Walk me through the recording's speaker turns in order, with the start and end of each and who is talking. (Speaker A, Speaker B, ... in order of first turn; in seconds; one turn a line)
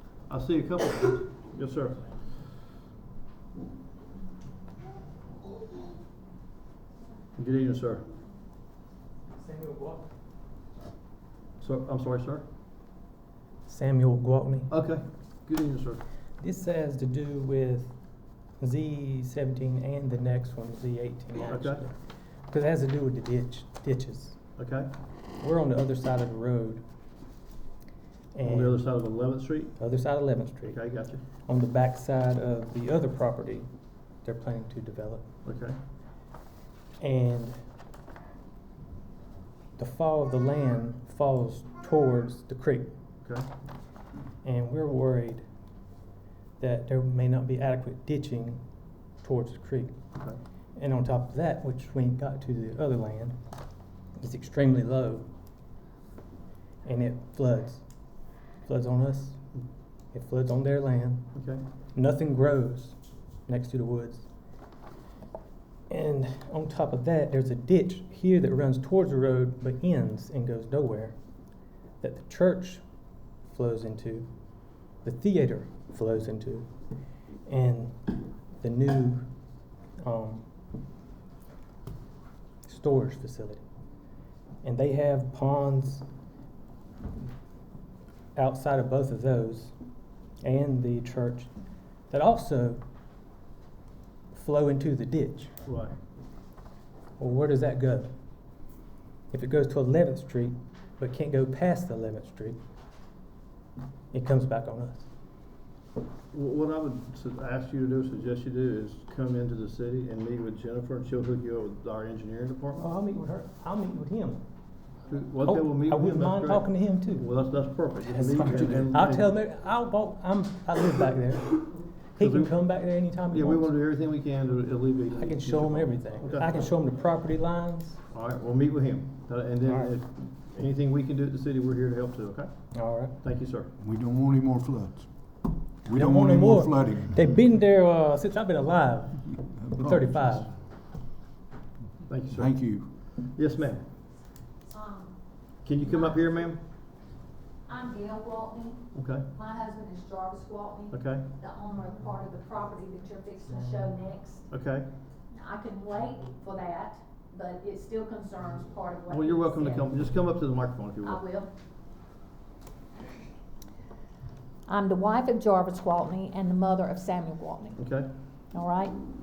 Speaker A: 0.3-2.1
Speaker A: 7.3-8.0
Speaker B: 9.3-10.1
Speaker A: 11.6-12.4
Speaker B: 13.7-14.7
Speaker A: 14.7-16.0
Speaker B: 16.4-17.9
Speaker B: 18.6-21.9
Speaker A: 21.4-21.8
Speaker B: 22.5-24.4
Speaker A: 24.6-24.9
Speaker B: 25.4-26.8
Speaker B: 28.3-28.8
Speaker A: 28.4-29.8
Speaker B: 29.8-30.8
Speaker A: 30.6-31.2
Speaker B: 31.4-33.7
Speaker B: 34.2-35.2
Speaker A: 35.4-35.8
Speaker B: 37.0-37.6
Speaker B: 39.8-42.9
Speaker B: 44.4-45.4
Speaker B: 46.6-48.6
Speaker B: 49.2-49.9
Speaker B: 50.8-53.4
Speaker B: 54.2-55.2
Speaker B: 56.8-57.8
Speaker B: 58.6-59.4
Speaker B: 60.1-61.3
Speaker A: 61.4-61.6
Speaker B: 61.9-62.9
Speaker B: 63.5-64.2
Speaker B: 65.9-71.1
Speaker B: 72.0-72.8
Speaker B: 73.5-74.3
Speaker B: 75.0-76.7
Speaker B: 77.5-78.1
Speaker B: 78.6-79.3
Speaker B: 80.0-80.4
Speaker B: 82.6-83.6
Speaker B: 84.6-86.0
Speaker B: 88.3-89.7
Speaker B: 90.4-91.5
Speaker B: 92.1-92.8
Speaker B: 94.3-95.5
Speaker A: 95.6-95.9
Speaker B: 97.2-98.1
Speaker B: 99.3-102.5
Speaker B: 104.1-105.0
Speaker A: 106.3-112.9
Speaker B: 112.8-114.4
Speaker A: 115.1-119.2
Speaker B: 115.4-117.3
Speaker B: 118.0-123.7
Speaker A: 122.2-122.5
Speaker A: 123.3-126.6
Speaker B: 125.1-128.0
Speaker A: 128.1-132.5
Speaker B: 129.6-129.9
Speaker B: 132.7-133.2
Speaker A: 133.2-133.7
Speaker C: 133.8-135.1
Speaker C: 135.8-137.3
Speaker B: 135.9-140.5
Speaker C: 139.3-140.5
Speaker A: 142.1-142.5
Speaker C: 142.3-142.9
Speaker A: 143.2-143.8
Speaker D: 144.7-145.1
Speaker A: 145.6-146.6
Speaker D: 145.9-146.1
Speaker D: 147.7-148.8
Speaker A: 148.9-149.2
Speaker D: 149.3-154.5
Speaker A: 150.9-151.2
Speaker A: 154.5-154.9
Speaker D: 155.3-159.9
Speaker A: 159.1-161.2
Speaker D: 161.0-161.5
Speaker D: 164.7-167.8
Speaker A: 167.8-168.1
Speaker D: 168.5-168.9